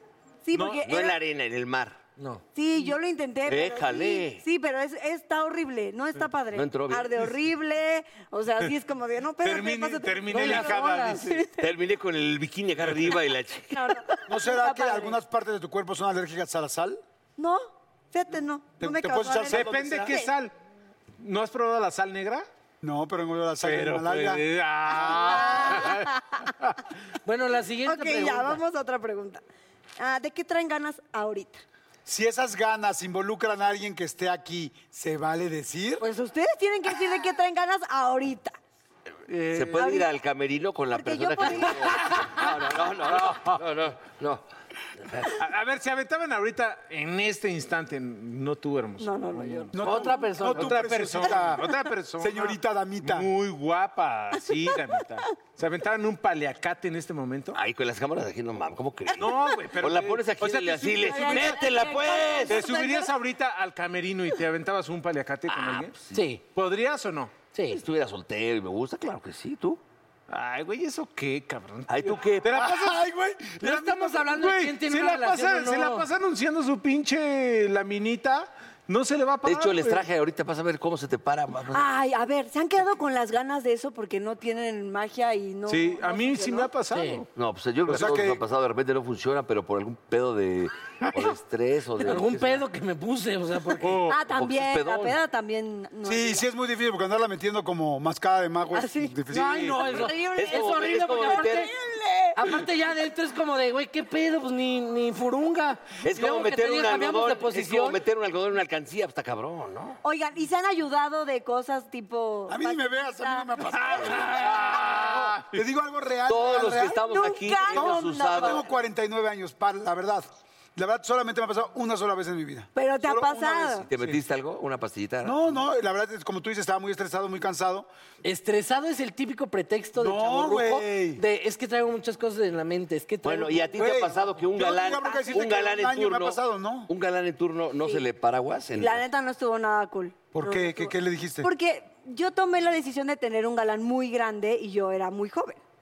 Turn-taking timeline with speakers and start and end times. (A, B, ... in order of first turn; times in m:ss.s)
0:00.4-0:01.2 A
0:00.5-0:00.8 B
0:00.8-0:02.0 C
0:02.2-0:02.4 D
0:02.5-0:11.6 A
0:03.5-0:04.4 C
0:06.5-0:07.3 C
0:09.4-0:11.4 B
0:10.3-0:11.3 D
0:11.6-0:13.8 C
0:13.7-0:15.2 A
0:14.3-0:17.0 E
0:17.4-0:20.3 A
0:18.8-0:20.1 E
0:19.5-0:20.5 B
0:21.2-0:22.4 B
0:22.8-0:25.4 E
0:23.6-0:26.8 B
0:24.9-0:26.5 A
0:27.2-0:28.6 D
0:27.8-0:29.4 A
0:30.0-0:31.6 A
0:32.0-0:36.0 E
0:36.0-0:38.6 A
0:39.3-0:39.8 B
0:39.5-0:44.4 C
0:39.7-0:40.1 A
0:40.9-0:42.1 A
0:43.1-0:43.6 B
0:45.0-0:45.3 C
0:45.4-0:49.8 B
0:49.0-0:50.2 A
0:49.7-0:51.7 E
0:49.8-0:51.2 D
0:50.5-0:57.6 B
0:52.2-0:53.3 E
0:57.5-1:02.6 C
0:59.2-1:01.6 B
1:01.0-1:03.1 A
1:02.5-1:06.0 B
1:05.5-1:06.2 C
1:06.1-1:06.4 D
1:06.5-1:07.4 B
1:07.5-1:07.8 D
1:07.7-1:09.8 C
1:10.3-1:13.1 B
1:11.9-1:12.5 C
1:12.5-1:13.7 E
1:13.6-1:20.0 B
1:13.6-1:16.1 D
1:19.4-1:21.8 C
1:21.7-1:26.7 A
1:25.7-1:27.2 B
1:26.9-1:27.2 D
1:27.3-1:32.6 C
1:27.9-1:28.4 E
1:32.0-1:34.1 D
1:33.8-1:34.2 B
1:34.0-1:36.4 A
1:34.3-1:35.2 C
1:36.0-1:39.8 E
1:38.7-1:39.2 A
1:39.3-1:41.7 D
1:39.5-1:40.0 B
1:39.8-1:42.4 A
1:40.4-1:41.7 C
1:42.4-1:48.0 D
1:46.0-1:50.0 C
1:50.0-1:53.7 A
1:52.5-1:57.0 E
1:53.8-1:55.5 B
1:56.3-1:58.6 C
1:57.0-1:58.6 A
1:57.6-2:04.2 E
2:02.8-2:03.8 A
2:03.9-2:05.6 C
2:05.2-2:07.9 E
2:08.2-2:13.8 D
2:10.0-2:11.2 E
2:13.2-2:19.0 C
2:13.7-2:16.9 E
2:14.7-2:15.6 A
2:18.8-2:25.6 A
2:20.3-2:21.5 E